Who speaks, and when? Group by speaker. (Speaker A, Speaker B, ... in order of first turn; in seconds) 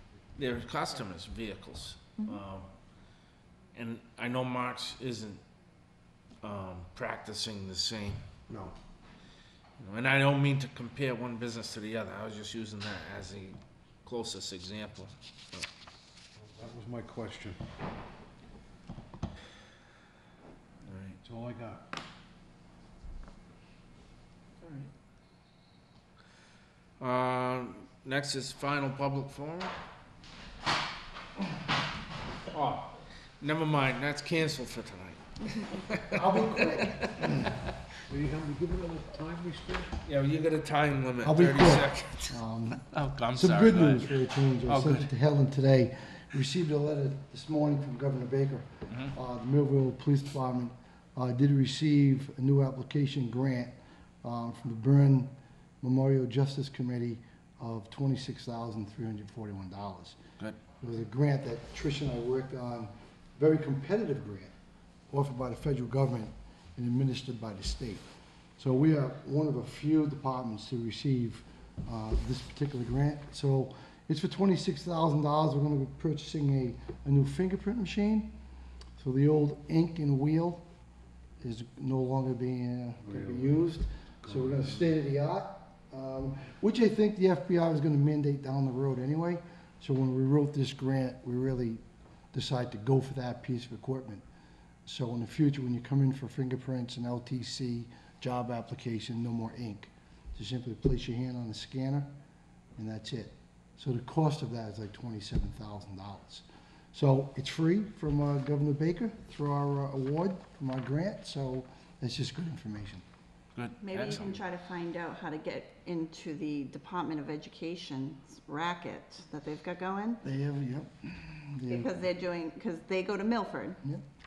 Speaker A: 0.4-2.7, 3.8-5.4, 6.4-8.2, 9.8-15.7, 20.9-21.2, 24.6-24.9, 27.0-29.7, 32.5-37.3, 40.1-44.1, 44.7-45.1, 113.6-114.4
Speaker B: 8.5-8.8, 16.4-17.6, 21.2-21.9, 38.1-40.0, 83.0-83.7, 84.2-84.8
Speaker C: 36.1-37.5, 41.2-42.8, 43.3-60.2, 60.8-64.5, 65.1-68.0, 68.6-78.3, 79.0-80.6, 81.4-91.8, 92.3-94.2, 94.9-102.1, 102.8-113.0, 120.2-122.1
Speaker D: 113.8-120.2, 121.7-123.8